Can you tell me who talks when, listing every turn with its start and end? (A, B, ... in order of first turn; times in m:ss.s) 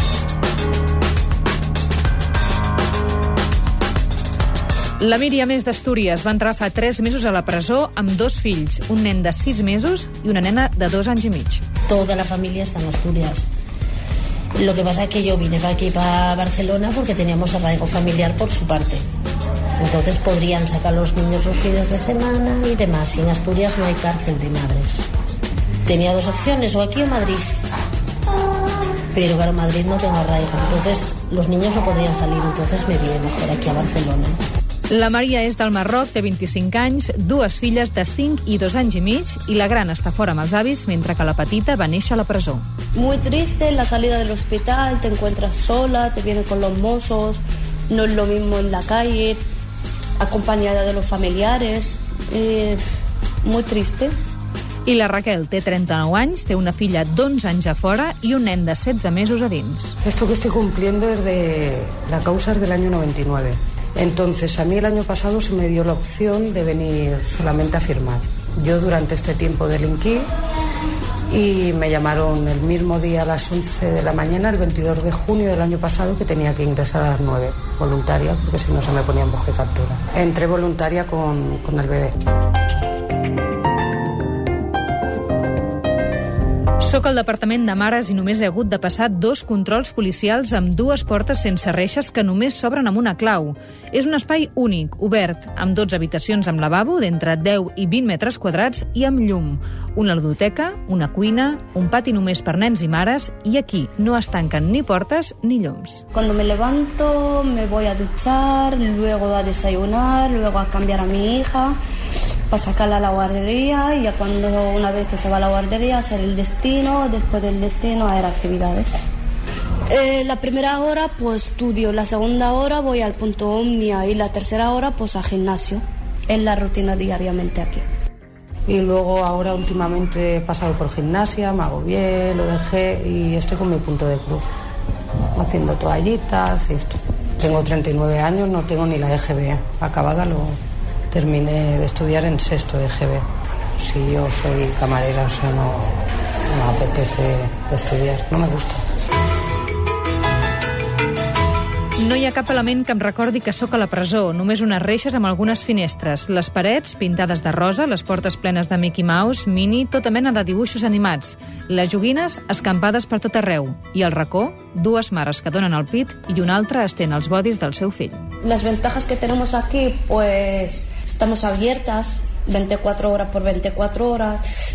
0:05.0-0:11.6 A
0:11.9-0:13.5 B
0:14.6-0:19.0 B
0:19.8-0:25.1 B
0:25.9-0:27.6 B
0:29.1-0:34.4 B
0:34.9-0:42.6 A
0:43.0-0:49.4 C
0:50.2-0:52.8 C
0:53.4-0:54.1 C
0:54.8-1:00.0 A
1:00.0-1:10.3 D
1:11.3-1:22.1 D
1:26.8-1:46.0 A
1:46.1-1:51.8 C
1:52.5-1:58.9 C
1:59.9-2:07.8 C
2:08.7-2:14.5 D
2:15.4-2:20.6 D
2:21.1-2:23.2 D
2:23.8-2:25.9 D
2:26.5-2:28.8 D
2:32.0-2:48.2 A
2:48.4-2:54.4 C